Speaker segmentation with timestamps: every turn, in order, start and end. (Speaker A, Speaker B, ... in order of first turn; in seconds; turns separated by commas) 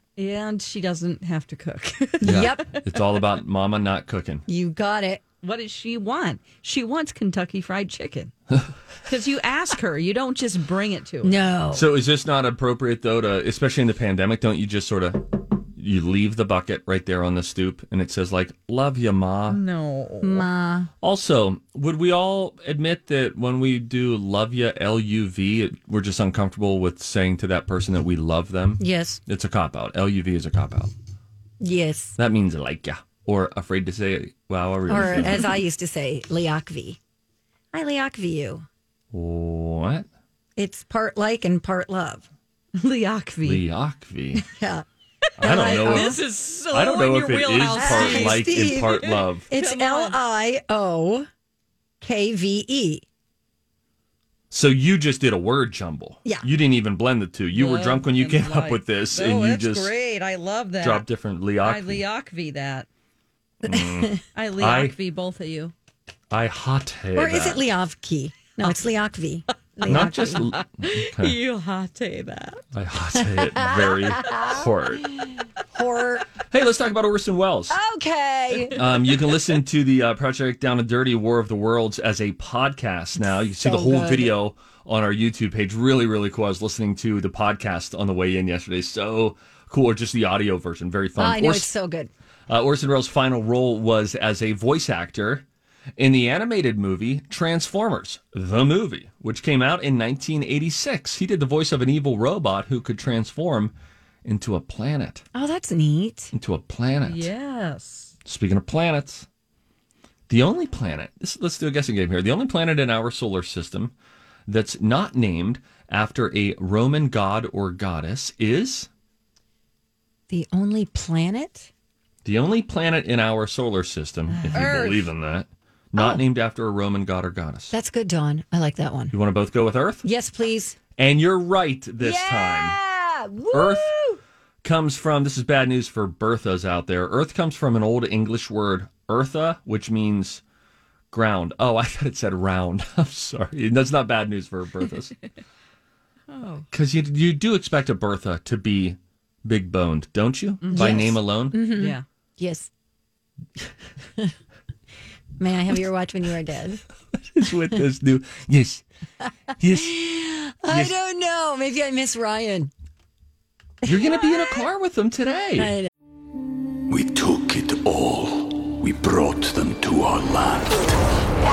Speaker A: 0.2-2.7, Speaker B: 2.2-2.7, Speaker C: 2.2-4.4, Speaker B: 4.5-5.2, Speaker A: 5.4-8.3, Speaker A: 9.1-11.4, Speaker B: 11.2-11.9, Speaker C: 11.7-19.6, Speaker A: 19.5-20.4, Speaker B: 20.2-20.9, Speaker C: 21.0-30.9, Speaker B: 28.8-29.2, Speaker B: 31.6-32.2, Speaker C: 32.2-35.5, Speaker B: 34.9-37.0, Speaker B: 37.7-38.7, Speaker C: 39.1-40.1, Speaker B: 40.6-42.3, Speaker A: 42.8-43.6, Speaker C: 43.4-44.4, Speaker B: 44.4-44.8, Speaker C: 45.4-49.5, Speaker B: 45.4-46.2, Speaker A: 45.4-50.2, Speaker B: 47.8-51.3, Speaker B: 52.0-53.0, Speaker C: 54.5-59.9, Speaker A: 57.5-61.1, Speaker C: 60.8-62.0, Speaker A: 61.6-62.9, Speaker B: 63.6-64.2, Speaker C: 63.6-65.0, Speaker A: 64.3-65.7, Speaker C: 66.3-67.7, Speaker B: 67.2-70.5, Speaker A: 69.8-72.6, Speaker C: 69.9-71.4, Speaker C: 72.7-75.1, Speaker B: 73.3-76.3, Speaker C: 76.5-77.8, Speaker B: 77.7-79.1, Speaker C: 78.8-91.7, Speaker B: 83.2-84.4, Speaker B: 91.2-92.1, Speaker C: 92.5-95.4, Speaker C: 96.0-103.7, Speaker C: 104.2-105.2, Speaker B: 105.3-106.3, Speaker C: 106.3-107.3, Speaker A: 107.0-108.1, Speaker C: 108.3-109.3, Speaker C: 110.3-113.9, Speaker C: 114.5-118.9, Speaker B: 120.3-121.7, Speaker C: 122.2-127.7, Speaker B: 124.3-124.9, Speaker A: 124.5-125.1, Speaker B: 126.0-126.2, Speaker B: 127.7-129.2, Speaker C: 129.1-130.1, Speaker B: 130.0-130.8, Speaker C: 131.0-132.8, Speaker B: 132.0-134.2, Speaker C: 133.5-133.9, Speaker C: 134.6-140.4, Speaker C: 141.1-145.2, Speaker A: 146.3-146.7, Speaker C: 146.7-151.6, Speaker A: 150.6-151.1, Speaker B: 150.7-152.7, Speaker A: 151.7-152.0, Speaker B: 155.4-156.8, Speaker C: 157.3-158.8, Speaker C: 159.6-160.0, Speaker B: 159.7-162.7, Speaker C: 160.7-160.9, Speaker C: 163.8-165.8, Speaker B: 163.8-164.6, Speaker B: 165.6-165.8, Speaker D: 166.9-171.0